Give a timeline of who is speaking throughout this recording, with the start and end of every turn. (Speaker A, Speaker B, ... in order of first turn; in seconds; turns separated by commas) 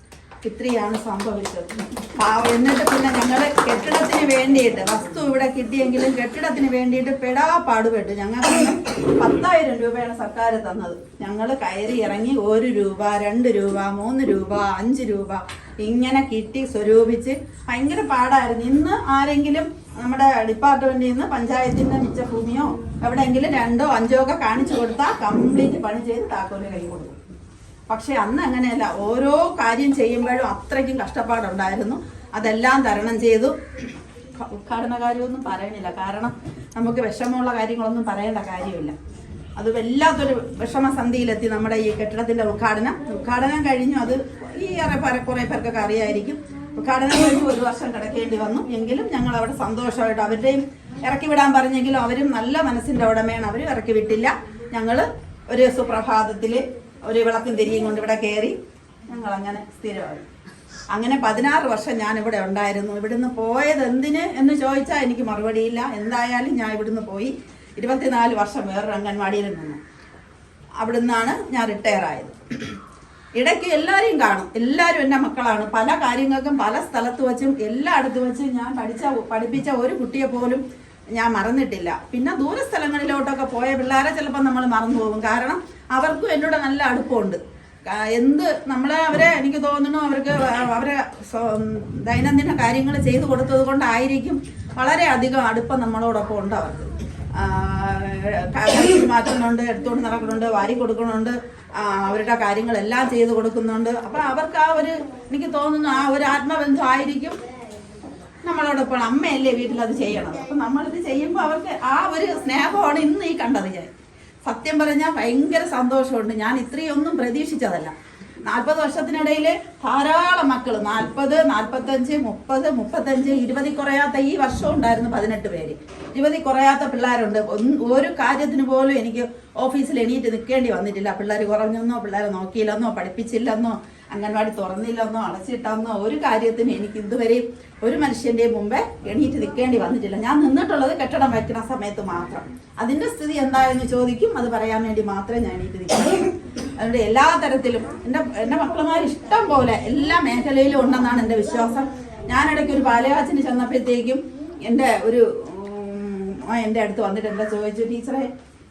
Speaker A: 0.4-27.1, Speaker A: 27.9-33.5, Speaker A: 34.4-38.9, Speaker A: 39.6-58.6, Speaker A: 59.1-60.2, Speaker A: 60.9-69.8, Speaker A: 70.8-72.7, Speaker A: 73.4-80.6, Speaker A: 81.1-107.4, Speaker A: 108.4-113.9, Speaker A: 114.5-117.9, Speaker A: 118.4-158.3